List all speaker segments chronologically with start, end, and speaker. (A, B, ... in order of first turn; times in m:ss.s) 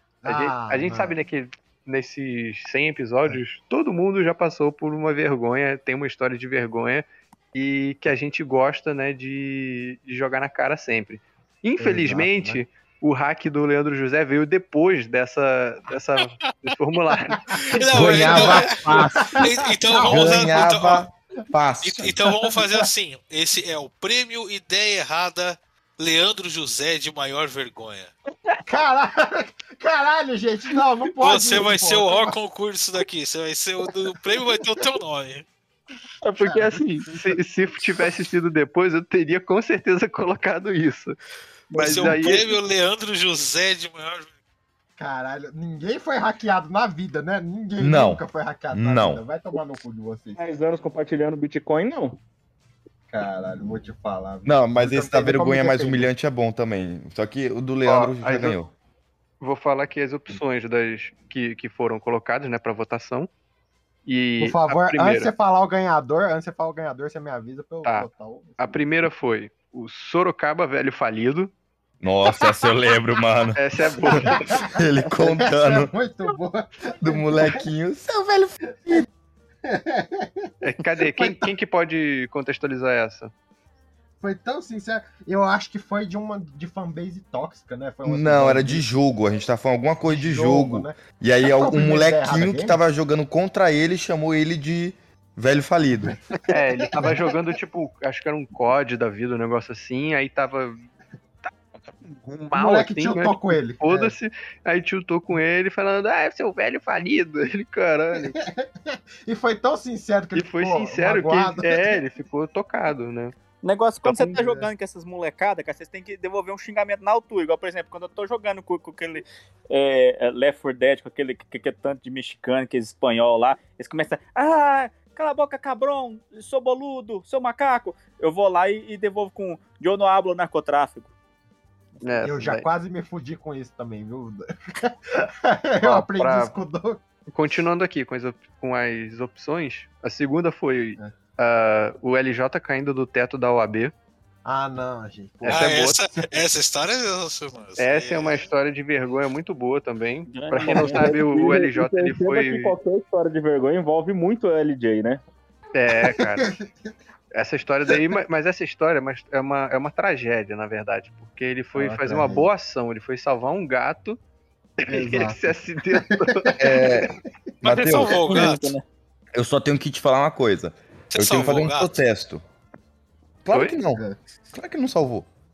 0:00.2-0:01.2 A
0:00.3-0:17.6 B
0:11.8-0:12.6 A
0:17.5-0:20.6 A
0:17.7-0:21.1 C
0:17.9-0:19.5 D
0:20.0-0:22.3 D
0:21.8-0:28.1 C
0:28.6-0:32.4 A
0:31.2-0:35.4 C
0:36.2-0:41.2 B
0:36.4-0:37.3 A
0:41.7-0:42.6 B
0:41.7-0:44.3 C
0:45.0-0:50.4 A
0:47.8-0:49.2 D
0:50.4-0:52.2 E
0:53.1-0:56.1 A
0:54.4-0:58.7 D
0:57.9-0:58.6 B
0:59.4-1:03.3 B
1:04.1-1:05.3 B
1:04.4-1:08.8 A
1:07.8-1:11.5 B
1:12.0-1:15.9 D
1:13.6-1:14.6 B
1:13.9-1:17.6 A
1:17.0-1:19.0 D
1:19.7-1:20.5 A
1:20.6-1:23.3 B
1:24.2-1:28.9 A
1:28.0-1:36.2 D
1:30.1-1:32.8 A
1:36.5-1:40.8 B
1:36.8-1:37.2 A
1:42.2-1:48.4 B
1:42.5-1:44.1 A
1:48.4-1:52.0 A
1:50.4-1:53.3 B
1:53.6-2:11.1 F
1:54.2-1:54.7 A
2:12.0-2:12.7 B
2:12.2-2:17.0 A
2:15.8-2:16.5 B
2:17.3-2:23.9 B
2:24.4-2:26.3 A
2:25.4-2:26.0 B
2:25.5-2:28.5 C
2:27.8-2:32.7 B
2:30.3-2:31.2 F
2:30.6-2:35.2 E
2:35.7-2:36.5 B
2:36.0-2:36.7 A
2:37.3-2:44.2 B
2:41.7-2:42.5 A
2:44.8-2:47.0 B
2:44.9-2:46.9 A
2:46.6-2:48.4 D
2:47.6-2:48.7 C
2:48.2-2:48.8 F
2:49.4-2:52.4 D
2:51.1-2:51.9 C
2:53.4-2:55.3 D